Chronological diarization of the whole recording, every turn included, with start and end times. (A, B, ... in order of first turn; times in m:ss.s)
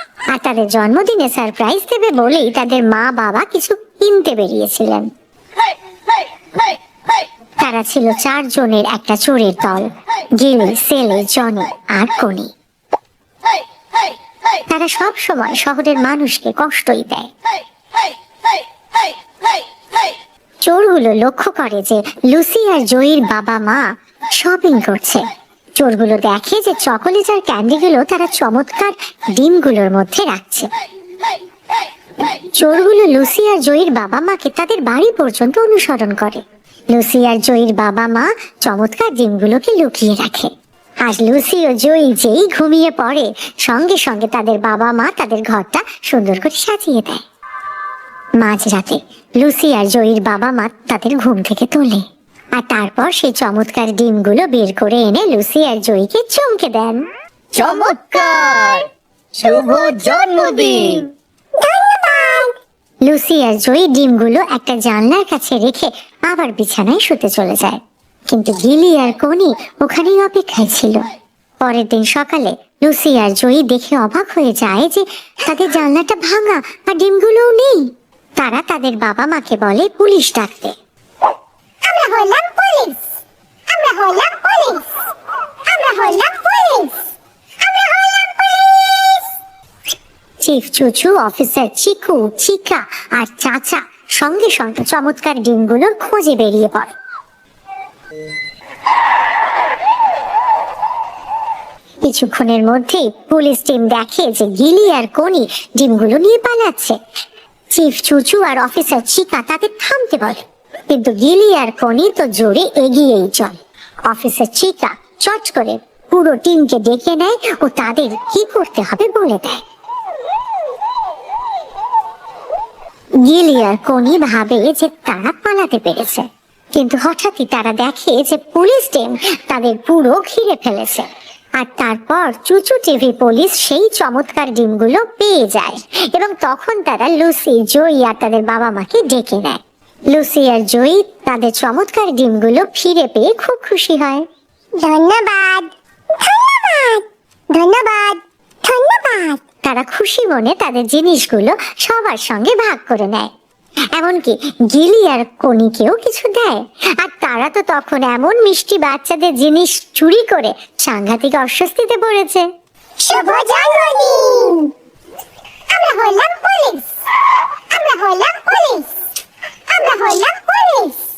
0:00.3-0:05.1 A
0:07.6-0:12.5 A
0:14.7-0:17.3 A
0:20.6-0:25.2 A
0:25.8-0:30.7 A
0:32.3-0:40.5 A
0:41.0-0:47.2 A
0:48.4-0:57.1 A
0:57.6-0:58.8 B
0:59.4-1:00.9 B
1:01.6-1:02.5 C
1:03.0-1:11.0 A
1:11.6-1:20.8 A
1:21.8-1:23.0 C
1:23.7-1:24.8 C
1:25.6-1:27.0 C
1:27.6-1:29.2 C
1:30.4-1:36.9 A
1:42.0-1:47.0 A
1:47.7-1:59.6 A
2:03.2-2:24.2 A
2:24.8-2:29.4 C
2:29.5-2:33.3 A
2:33.9-2:42.5 A
2:43.0-2:44.7 C
2:45.7-2:46.8 C
2:47.7-2:48.9 C
2:49.7-2:51.0 C